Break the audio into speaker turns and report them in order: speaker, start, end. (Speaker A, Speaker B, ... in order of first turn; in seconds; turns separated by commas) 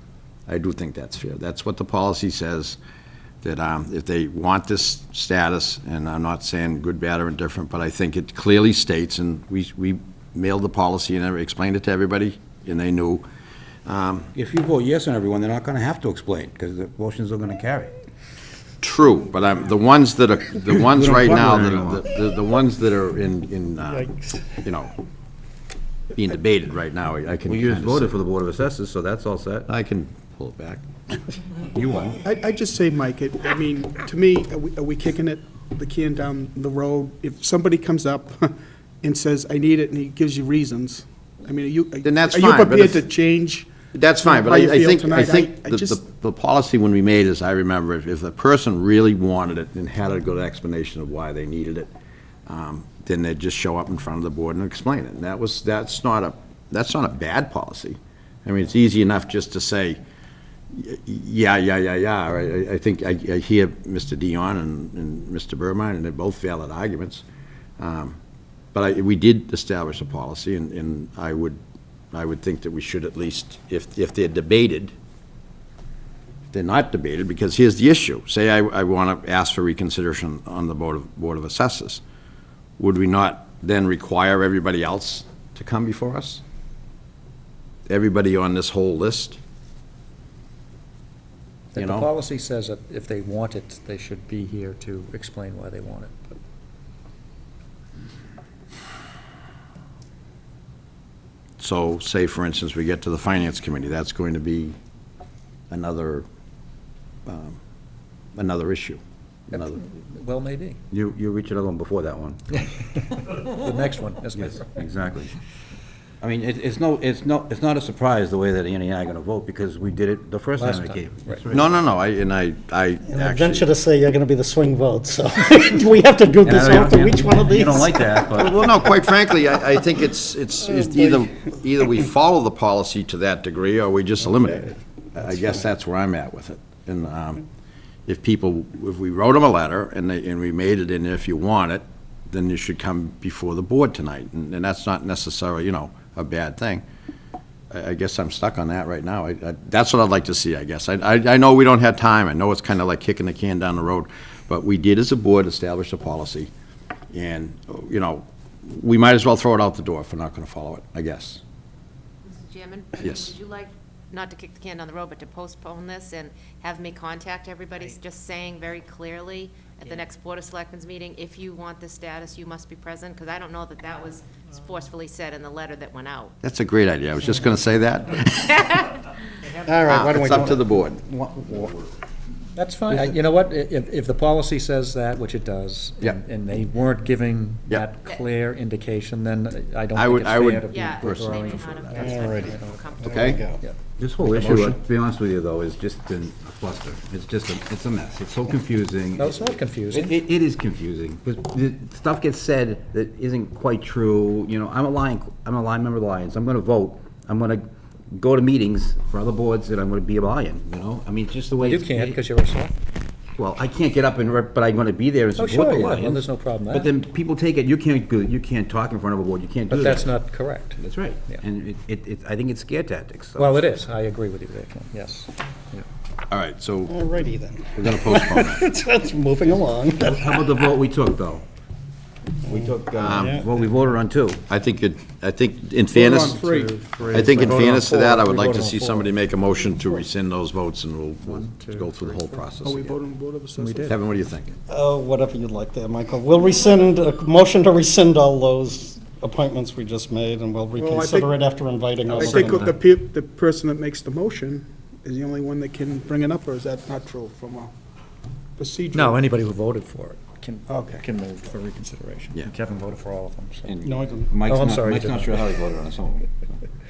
Speaker A: 0.5-2.8, Speaker A: 3.4-13.2, Speaker A: 13.8-14.3, Speaker B: 14.3-17.9, Speaker A: 18.8-24.9, Speaker B: 20.7-22.1, Speaker C: 23.9-24.4, Speaker A: 26.1-28.1, Speaker B: 27.4-29.7, Speaker A: 29.7-30.8, Speaker B: 31.6-32.2, Speaker D: 32.2-46.0, Speaker A: 42.0-43.0, Speaker A: 43.9-51.9, Speaker A: 52.5-60.0, Speaker A: 60.7-67.2, Speaker A: 67.8-68.2, Speaker A: 68.7-71.6, Speaker A: 72.1-74.9, Speaker A: 76.5-82.0, Speaker A: 82.8-86.4, Speaker A: 87.9-89.4, Speaker E: 91.7-96.3, Speaker A: 91.8-92.1, Speaker A: 101.6-104.8, Speaker A: 105.7-106.2, Speaker A: 107.2-107.6, Speaker A: 108.3-109.0, Speaker E: 109.5-110.8, Speaker A: 109.5-109.8, Speaker B: 110.9-112.4, Speaker E: 113.3-114.7, Speaker B: 114.3-115.3, Speaker B: 116.2-121.8, Speaker E: 120.6-121.4, Speaker A: 121.5-123.7, Speaker C: 123.0-128.3, Speaker B: 126.4-128.9, Speaker A: 128.3-137.4, Speaker A: 138.1-146.8, Speaker A: 147.7-156.5, Speaker A: 157.1-161.4, Speaker F: 162.2-176.3, Speaker A: 163.0-163.3, Speaker A: 176.4-178.9, Speaker C: 179.6-180.6, Speaker A: 179.8-181.0, Speaker B: 180.3-181.9, Speaker E: 182.5-192.9, Speaker A: 189.9-191.4, Speaker F: 190.7-193.5, Speaker C: 191.9-193.6, Speaker A: 193.0-193.4, Speaker B: 194.0-212.2, Speaker A: 194.3-194.8, Speaker E: 199.2-200.2, Speaker E: 211.6-212.8, Speaker B: 213.3-220.2, Speaker E: 215.3-216.9, Speaker E: 219.7-221.4, Speaker B: 220.8-223.6, Speaker E: 223.3-225.8, Speaker A: 226.3-227.1, Speaker C: 226.8-230.6, Speaker A: 227.7-228.7, Speaker B: 230.0-231.4, Speaker B: 232.4-234.4, Speaker A: 233.0-233.4, Speaker A: 234.4-236.4, Speaker D: 235.9-236.8, Speaker E: 236.3-239.2, Speaker A: 237.1-242.9, Speaker E: 241.2-242.4, Speaker D: 242.6-243.9, Speaker E: 243.6-244.0, Speaker A: 243.9-244.5, Speaker C: 244.7-252.7, Speaker D: 250.8-251.3, Speaker D: 252.1-257.7, Speaker E: 252.2-252.8, Speaker D: 258.6-259.2, Speaker E: 258.9-263.7, Speaker D: 260.7-261.0, Speaker B: 263.6-266.5, Speaker E: 264.3-265.7